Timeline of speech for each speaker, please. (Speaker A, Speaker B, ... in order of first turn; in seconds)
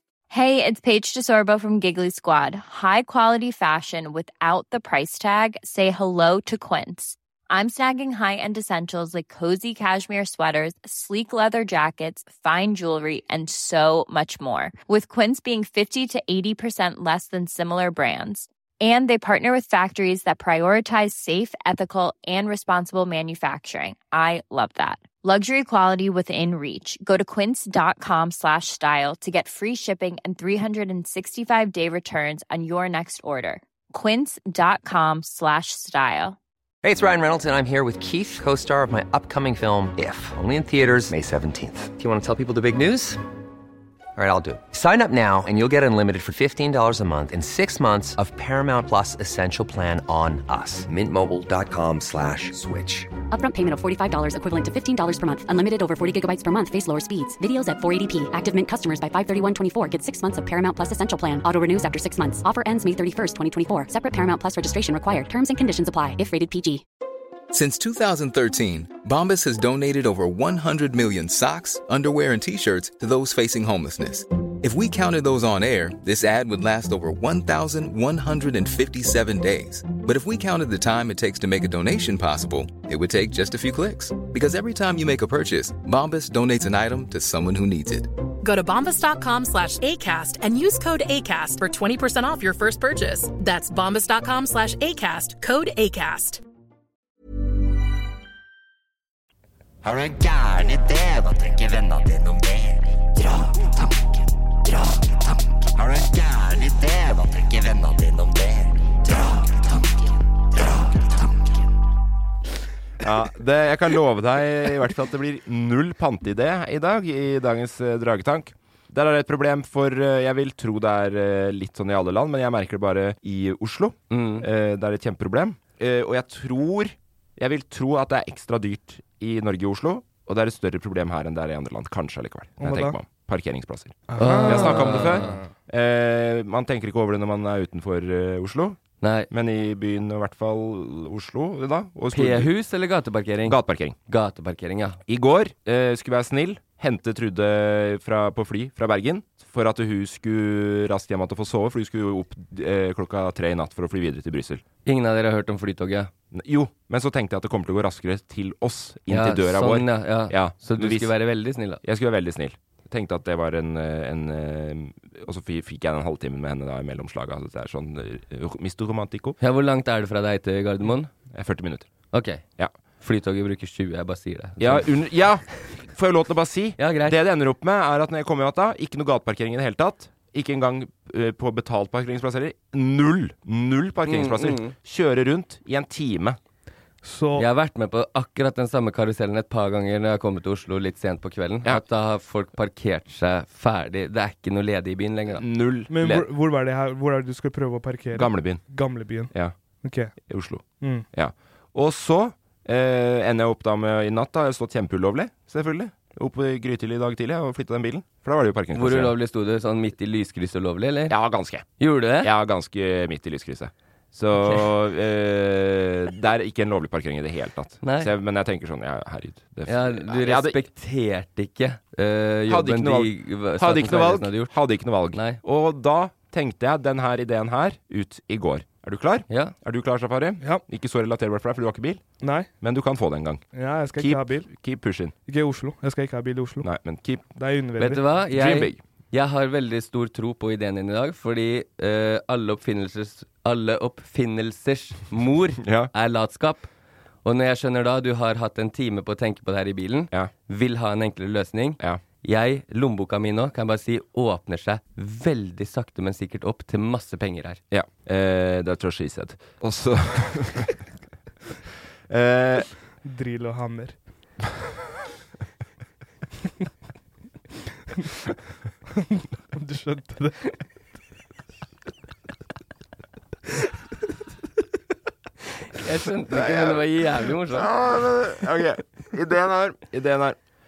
Speaker A: 0.3-36.4
Speaker B: 36.8-43.2, 44.1-53.1
Speaker C: 53.3-66.8
Speaker D: 67.5-88.1
Speaker E: 88.4-96.4
Speaker F: 99.8-102.9, 105.8-109.2
Speaker G: 113.0-138.8, 139.3-142.5, 143.4-143.9, 145.1-154.6, 156.3-161.1, 161.8-169.4, 171.3-171.9, 174.6-186.4, 195.3-196.3, 198.1-198.7, 200.2-209.1, 211.1-220.6, 222.5-232.0, 232.6-233.4, 233.9-235.1, 236.6-237.3, 238.3-238.8, 245.6-245.9, 257.7-260.8, 262.1-262.7, 276.3-276.8, 277.5-280.4
Speaker H: 124.1-124.5, 134.2-135.4, 139.0-139.3, 142.1-145.0, 154.8-156.1, 159.1-161.8, 169.4-171.1, 172.1-172.4, 173.0-174.9, 176.8-177.2, 184.1-184.7, 187.3-195.4, 208.7-211.2, 211.8-212.3, 214.3-214.7, 217.8-218.1, 219.7-224.5, 225.1-225.4, 229.3-229.5, 237.8-246.7, 247.2-257.6, 275.7-277.7
Speaker I: 132.6-133.0, 134.1-135.5, 187.0-187.4, 195.9-200.1, 200.8-201.1, 232.2-232.5, 233.5-234.5, 235.3-236.7, 237.3-238.1, 263.0-264.0, 268.9-270.5